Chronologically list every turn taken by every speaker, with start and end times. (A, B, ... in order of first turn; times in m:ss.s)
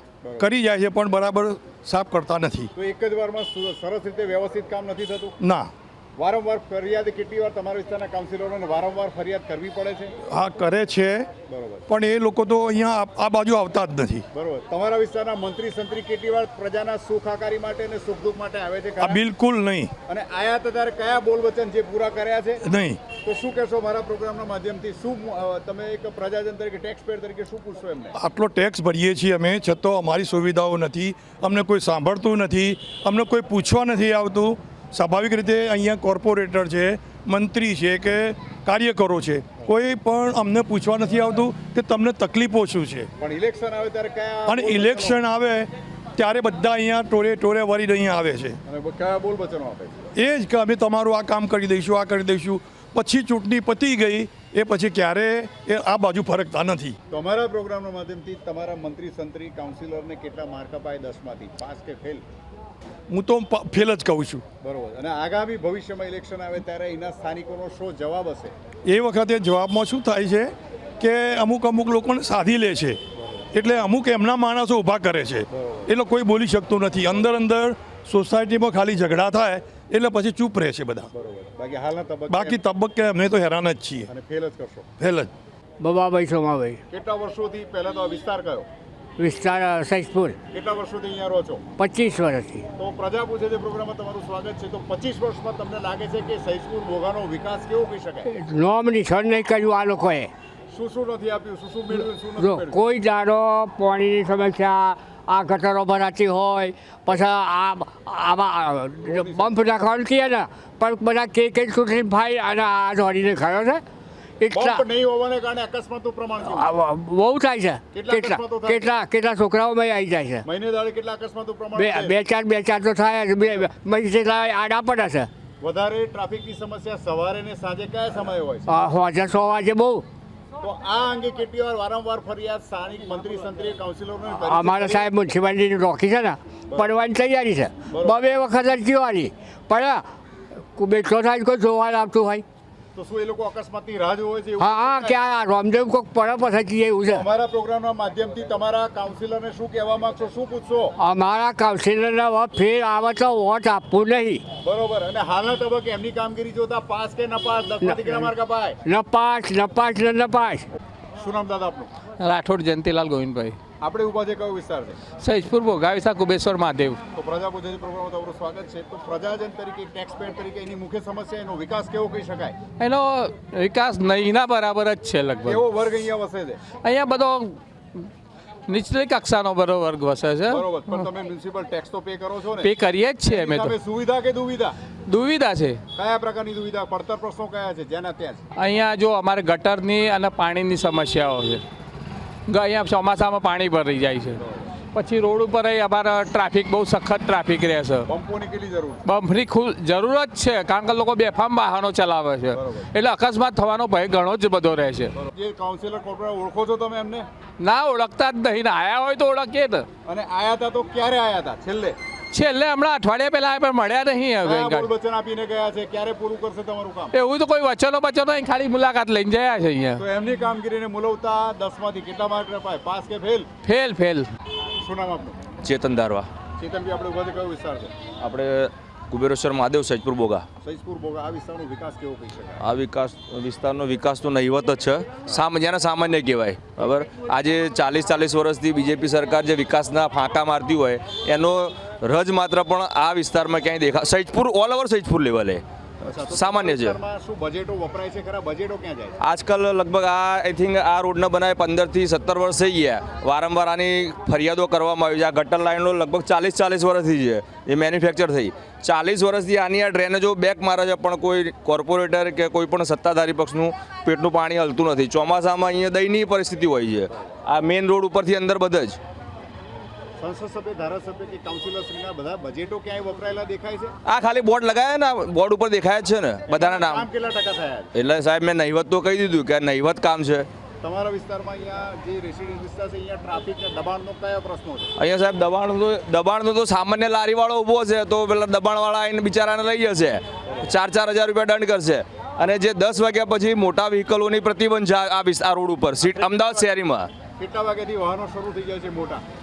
0:00.2-0:00.5 A
0:00.4-0:02.7 B
0:02.8-0:05.4 A
0:05.4-0:05.7 B
0:06.2-0:10.1 A
0:10.3-0:11.3 B
0:11.5-0:11.8 A
0:11.9-0:14.3 B
0:14.3-0:19.2 A
0:19.0-0:19.9 B
0:20.1-0:22.6 A
0:22.6-0:23.0 B
0:23.2-0:28.1 A
0:28.2-0:43.1 B
0:43.2-0:45.2 A
0:44.5-0:48.6 B
0:48.7-0:50.1 A
0:50.2-0:57.0 B
0:57.1-1:02.2 A
1:03.1-1:04.4 B
1:04.6-1:08.5 A
1:08.9-1:13.0 B
1:13.2-1:13.5 A
1:13.5-1:21.1 B
1:15.5-1:15.9 A
1:21.1-1:22.6 A
1:22.3-1:24.1 B
1:24.1-1:24.9 A
1:25.0-1:25.3 B
1:25.8-1:26.8 C
1:26.9-1:28.7 A
1:29.2-1:30.4 C
1:30.5-1:31.6 A
1:31.8-1:32.7 C
1:32.8-1:38.3 A
1:38.3-1:40.3 C
1:40.7-1:42.8 A
1:41.9-1:53.8 C
1:49.1-1:49.6 A
1:54.4-1:54.8 C
1:54.5-1:56.8 A
1:56.4-2:00.4 C
1:57.9-1:58.9 A
2:00.4-2:02.2 A
2:01.8-2:05.3 C
2:05.6-2:08.7 A
2:08.7-2:10.0 C
2:10.6-2:15.1 A
2:14.4-2:20.0 C
2:17.9-2:18.2 A
2:20.8-2:22.4 C
2:23.0-2:25.2 A
2:24.6-2:27.3 C
2:27.1-2:30.9 A
2:31.0-2:34.4 C
2:34.6-2:38.8 A
2:37.8-2:38.3 C
2:38.8-2:40.6 C
2:41.2-2:41.9 A
2:42.2-2:43.6 D
2:43.8-2:45.0 A
2:45.2-2:47.0 D
2:47.2-2:52.6 A
2:52.8-2:55.7 D
2:55.4-2:56.6 A
2:56.8-2:57.6 D
2:58.7-3:01.1 D
3:00.5-3:02.7 A
3:02.6-3:03.8 D
3:03.3-3:04.8 A
3:05.1-3:05.8 D
3:06.0-3:08.4 A
3:08.6-3:11.6 D
3:12.5-3:14.4 D
3:14.4-3:14.7 A
3:14.9-3:18.1 D
3:18.1-3:19.0 A
3:19.0-3:25.1 D
3:22.6-3:22.9 A
3:25.2-3:27.3 A
3:27.6-3:29.9 D
3:30.1-3:32.0 A
3:32.3-3:34.9 D
3:34.4-3:37.1 A
3:37.1-3:40.0 D
3:40.0-3:43.5 A
3:43.6-3:44.3 D
3:44.8-3:45.4 A
3:45.6-3:46.3 E
3:46.6-3:47.9 A
3:48.2-3:50.4 E
3:50.6-3:52.6 A
3:52.6-4:05.6 E
4:06.0-4:09.2 A
4:06.3-4:07.0 E
4:09.2-4:29.0 E
4:30.2-4:33.9 A
4:34.1-4:37.1 E
4:36.5-4:37.9 A
4:38.0-4:40.5 E
4:40.8-4:44.9 A
4:45.0-4:57.1 E
4:56.1-4:56.7 A
4:57.4-4:59.2 A